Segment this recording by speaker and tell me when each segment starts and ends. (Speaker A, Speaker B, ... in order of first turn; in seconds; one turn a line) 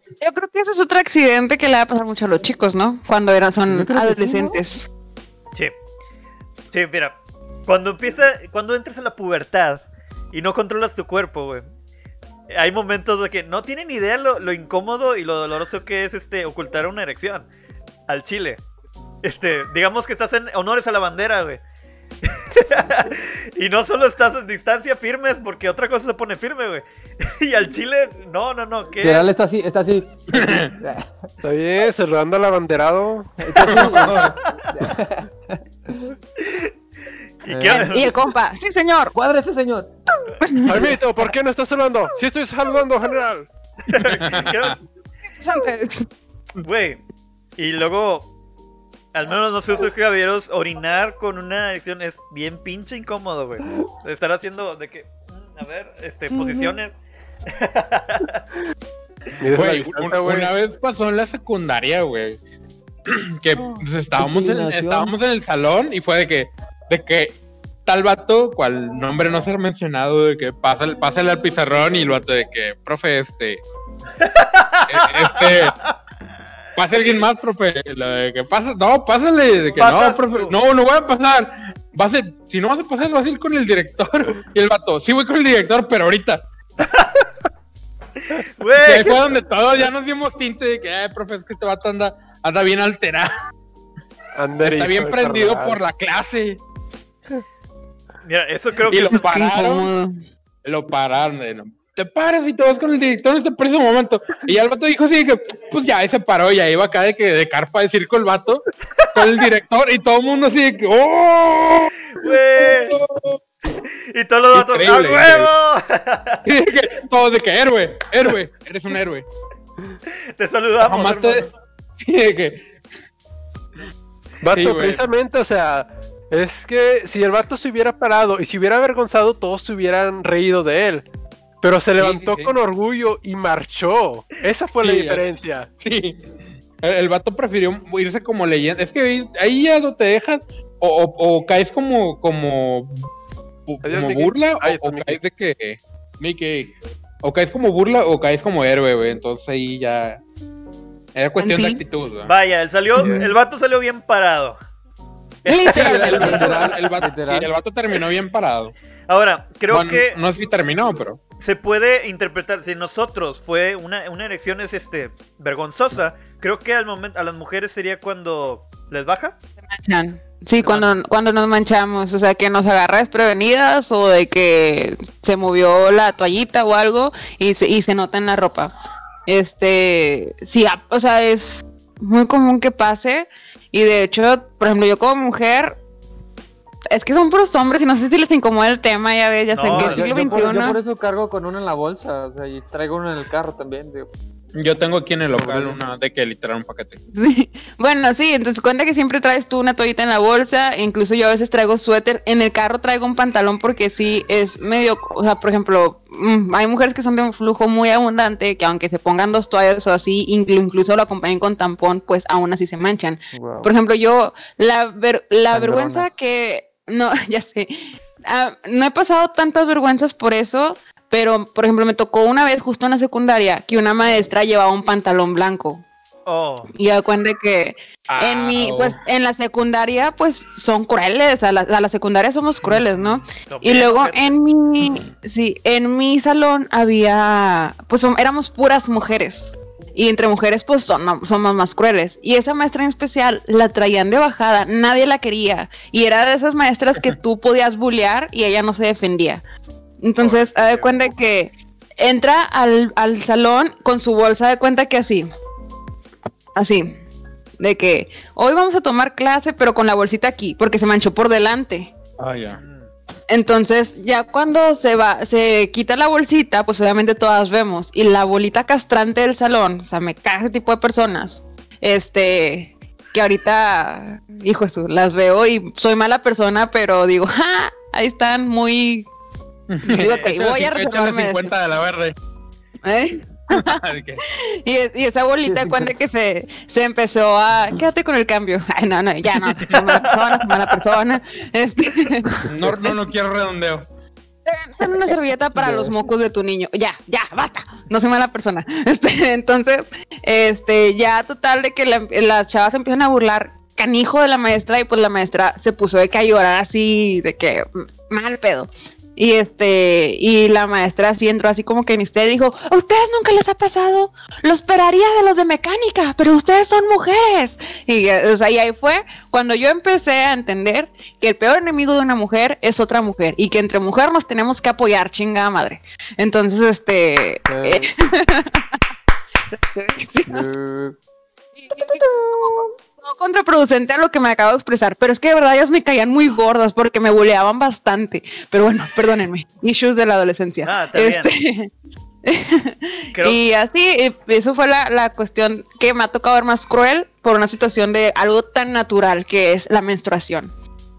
Speaker A: 0.2-4.9
Speaker B: 3.7-4.6
Speaker C: 6.7-7.1
Speaker C: 7.7-11.6
Speaker C: 12.5-17.4
Speaker C: 18.1-18.6
Speaker C: 19.2-21.6
Speaker C: 22.2-29.3
Speaker B: 29.0-31.1
Speaker D: 30.3-30.7
Speaker E: 31.4-34.1
Speaker B: 33.4-36.2
Speaker D: 33.6-34.4
Speaker C: 36.4-36.7
Speaker C: 37.4-38.1
Speaker B: 37.5-38.1
Speaker A: 37.7-39.1
Speaker B: 39.1-41.0
Speaker A: 40.4-40.9
Speaker E: 40.6-43.5
Speaker C: 43.9-44.8
Speaker D: 44.0-44.8
Speaker A: 45.4-46.1
Speaker C: 46.6-47.0
Speaker C: 47.6-48.3
Speaker C: 49.1-58.4
Speaker B: 56.2-56.8
Speaker E: 59.4-60.5
Speaker D: 59.5-62.4
Speaker D: 63.1-73.6
Speaker B: 64.2-65.1
Speaker C: 74.2-75.9
Speaker D: 74.9-75.8
Speaker D: 76.8-86.4
Speaker C: 79.8-80.5
Speaker C: 86.8-87.2
Speaker C: 88.2-89.2
Speaker D: 88.8-93.3
Speaker E: 94.3-95.8
Speaker D: 94.6-96.6
Speaker C: 98.2-99.3
Speaker D: 98.9-99.9
Speaker A: 99.1-100.2
Speaker D: 100.6-111.9
Speaker C: 109.0-109.4
Speaker C: 112.1-113.0
Speaker D: 112.8-113.4
Speaker C: 114.1-116.4
Speaker D: 114.5-115.5
Speaker D: 116.5-119.2
Speaker C: 120.3-121.5
Speaker D: 120.8-122.8
Speaker E: 124.4-131.1
Speaker D: 124.5-125.0
Speaker E: 131.6-135.7
Speaker D: 132.0-132.5
Speaker D: 134.8-136.2
Speaker D: 136.8-142.9
Speaker D: 143.7-150.2
Speaker E: 143.8-145.2
Speaker D: 151.1-152.3
Speaker A: 151.4-151.8
Speaker C: 152.2-154.6
Speaker A: 153.0-153.2
Speaker E: 153.0-153.3
Speaker C: 155.4-156.7
Speaker A: 155.5-156.7
Speaker D: 155.7-158.7
Speaker B: 156.1-157.5
Speaker C: 159.1-160.2
Speaker D: 159.7-161.2
Speaker C: 161.4-169.3
Speaker A: 169.7-178.7
Speaker C: 170.6-170.9
Speaker A: 179.3-185.8
Speaker A: 186.9-190.8
Speaker C: 189.5-190.1
Speaker B: 189.7-194.1
Speaker D: 194.6-197.0
Speaker B: 195.3-195.8
Speaker A: 197.1-225.8
Speaker B: 213.3-213.7
Speaker B: 215.5-216.1
Speaker C: 226.2-226.7
Speaker A: 226.7-249.4
Speaker D: 228.1-229.0
Speaker C: 233.4-234.4
Speaker A: 250.0-255.3
Speaker E: 250.2-250.8
Speaker A: 256.5-257.0
Speaker A: 257.6-261.9
Speaker D: 262.2-262.6
Speaker C: 262.5-262.9
Speaker A: 263.3-279.1
Speaker D: 279.7-282.1
Speaker A: 279.9-281.5
Speaker C: 279.9-280.3
Speaker A: 282.8-292.5
Speaker D: 283.5-284.2
Speaker B: 285.4-285.9
Speaker C: 289.7-290.2
Speaker D: 292.5-293.9
Speaker A: 294.4-328.6
Speaker B: 295.6-296.0
Speaker B: 327.5-327.9
Speaker A: 329.7-330.5
Speaker B: 330.3-331.0
Speaker A: 331.6-341.7
Speaker C: 340.6-341.3
Speaker A: 342.2-350.5
Speaker C: 343.1-343.4